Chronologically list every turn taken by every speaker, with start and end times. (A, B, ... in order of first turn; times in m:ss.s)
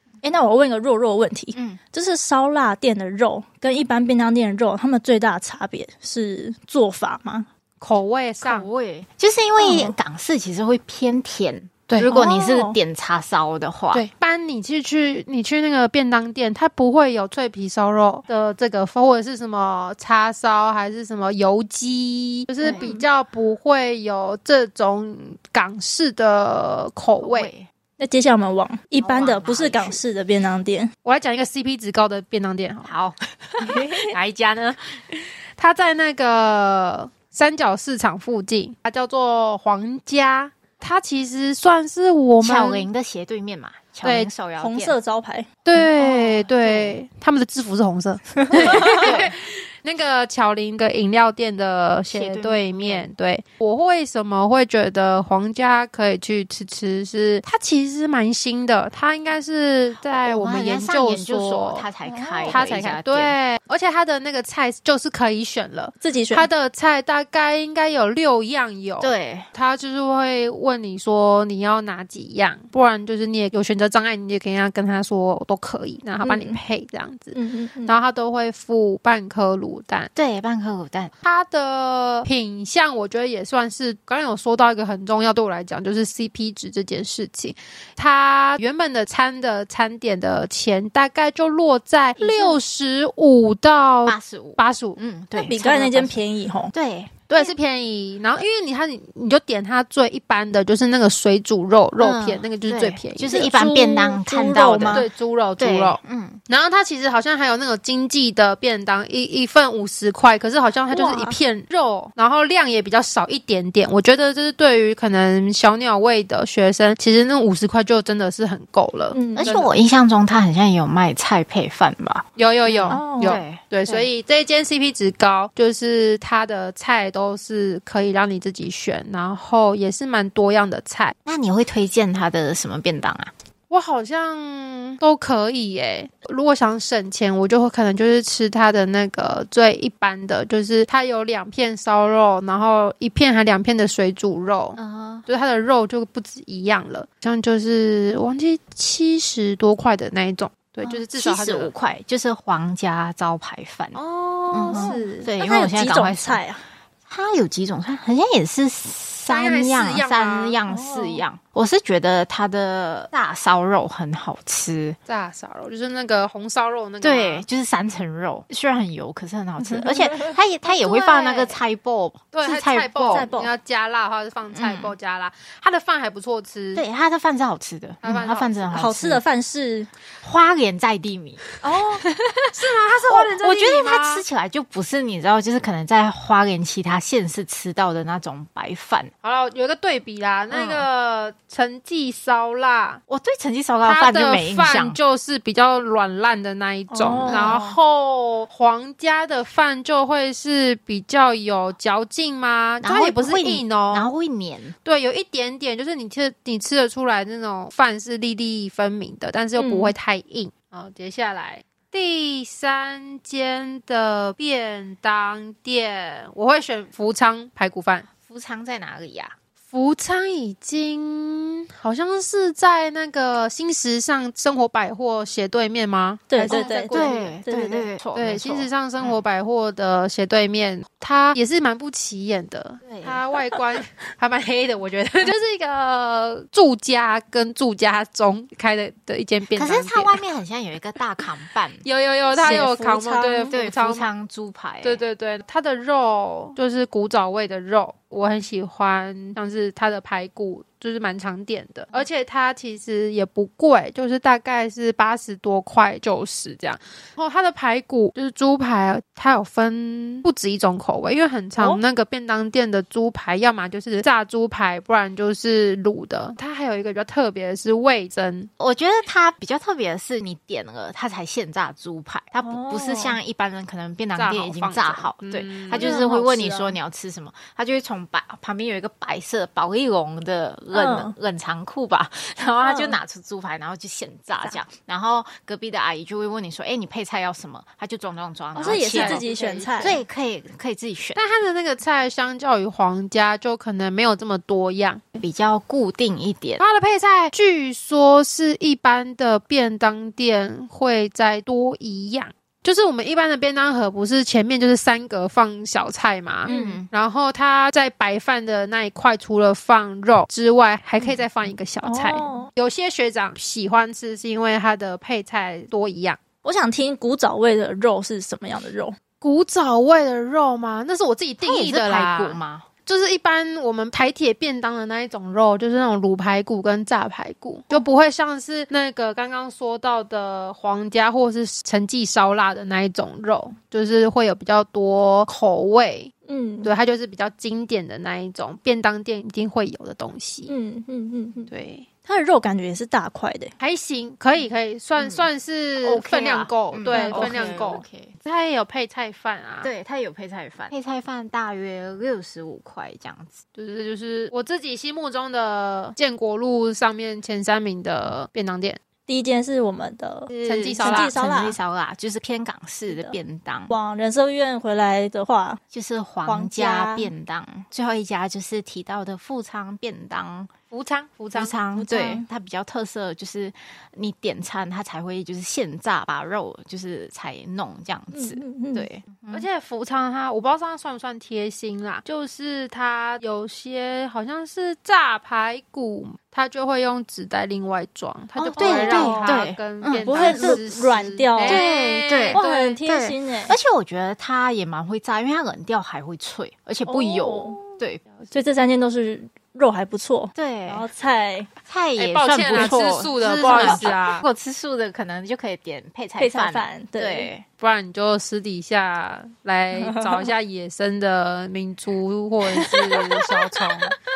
0:00.2-0:07.4 A
0:01.5-0:01.8 B
0:07.8-0:08.7 C
0:08.4-0:14.0 B
0:09.6-0:09.9 A
0:11.9-0:12.2 C
0:12.1-0:12.8 A
0:13.9-0:27.5 C
0:22.6-0:23.0 A
0:22.6-0:23.0 B
0:27.2-0:27.7 B
0:28.0-0:30.9 A
0:29.0-0:30.0 B
0:31.0-0:32.9 C
0:32.8-0:34.9 B
0:33.6-0:34.1 A
0:35.6-0:42.9 C
0:42.4-0:45.0 B
0:44.0-0:44.3 C
0:44.6-0:45.5 A
0:45.6-1:01.9 C
0:46.0-0:47.0 B
0:48.4-0:49.1 A
0:48.6-0:49.3 B
0:52.1-0:53.1 B
1:00.2-1:03.4 B
1:02.1-1:02.7 A
1:02.4-1:20.1 C
1:06.0-1:06.5 A
1:09.0-1:09.5 B
1:16.2-1:16.6 A
1:17.3-1:18.0 A
1:20.2-1:21.1 B
1:21.2-1:35.0 C
1:32.2-1:32.6 A
1:34.1-1:36.1 B
1:35.4-1:36.7 A
1:36.7-1:37.5 B
1:37.3-1:43.5 C
1:42.0-1:45.1 B
1:43.3-1:45.1 A
1:44.9-1:59.7 C
1:45.6-1:46.4 B
1:50.9-1:51.3 A
1:59.1-1:59.5 A
1:59.4-2:04.1 B
2:02.4-2:11.2 C
2:02.9-2:03.4 A
2:11.2-2:13.3 B
2:13.7-2:31.7 C
2:24.8-2:25.3 B
2:30.8-2:34.0 B
2:33.9-2:35.3 C
2:34.5-2:36.4 B
2:34.7-2:36.6 A
2:37.1-2:45.0 B
2:39.3-2:40.6 C
2:40.7-2:41.2 A
2:45.1-2:47.4 C
2:47.0-2:53.2 B
2:49.6-2:50.3 A
2:50.6-2:51.6 C
2:52.3-2:56.8 C
2:53.0-2:53.5 A
2:54.5-2:54.9 B
2:56.7-2:59.2 B
2:58.0-2:58.8 C
2:58.7-2:59.9 A
3:00.2-3:02.5 B
3:01.6-3:02.0 C
3:02.5-3:04.3 C
3:03.1-3:09.1 B
3:09.2-3:13.0 C
3:10.5-3:10.9 B
3:13.1-3:15.0 B
3:13.8-3:24.1 C
3:16.9-3:17.8 A
3:17.2-3:17.6 B
3:22.8-3:24.7 B
3:24.8-3:38.1 C
3:29.6-3:29.9 B
3:38.2-3:39.3 B
3:39.7-3:47.4 C
3:46.3-3:47.9 A
3:46.5-3:49.2 B
3:48.1-4:00.2 C
3:52.8-3:53.2 B
3:59.6-4:01.8 B
4:01.8-4:04.1 C
4:02.4-4:03.6 A
4:02.4-4:02.7 B
4:03.5-4:05.0 B
4:04.8-4:28.5 C
4:21.6-4:21.8 A
4:28.6-4:51.2 B
4:32.4-4:33.2 A
4:34.2-4:36.1 C
4:35.7-4:36.8 A
4:40.7-4:41.2 A
4:42.6-4:43.0 A
4:48.5-4:50.0 A
4:48.6-4:50.0 C
4:51.2-4:55.0 C
4:55.2-4:56.6 B
4:56.6-5:16.2 C
5:06.5-5:06.8 A
5:06.5-5:06.9 B
5:11.0-5:11.2 B
5:11.8-5:12.5 A
5:16.4-5:19.0 A
5:19.2-5:36.1 C
5:21.4-5:22.7 B
5:36.3-5:36.7 A
5:36.6-5:40.5 C
5:40.4-5:41.5 A
5:41.5-5:41.8 C
5:42.0-5:43.5 A
5:43.6-5:49.7 C
5:45.0-5:45.3 B
5:45.8-5:48.1 B
5:46.9-5:47.7 A
5:49.6-5:53.4 B
5:53.6-5:58.8 C
5:59.1-6:01.6 A
6:00.3-6:03.8 B
6:00.4-6:01.2 C
6:02.9-6:03.2 A
6:03.7-6:05.6 A
6:05.7-6:10.5 B
6:06.2-6:07.1 A
6:10.7-6:11.6 C
6:11.3-6:19.5 B
6:11.8-6:12.3 A
6:18.1-6:18.9 A
6:19.3-6:32.4 C
6:28.4-6:30.6 B
6:28.6-6:29.4 A
6:29.9-6:31.6 A
6:31.4-6:38.0 B
6:32.3-6:33.6 A
6:36.8-6:37.8 A
6:38.3-6:41.5 A
6:40.3-6:40.9 B
6:41.7-6:47.4 B
6:42.0-6:44.2 C
6:43.4-6:43.9 A
6:46.2-6:47.3 A
6:47.6-6:53.9 C
6:49.7-6:50.3 A
6:52.5-6:53.6 A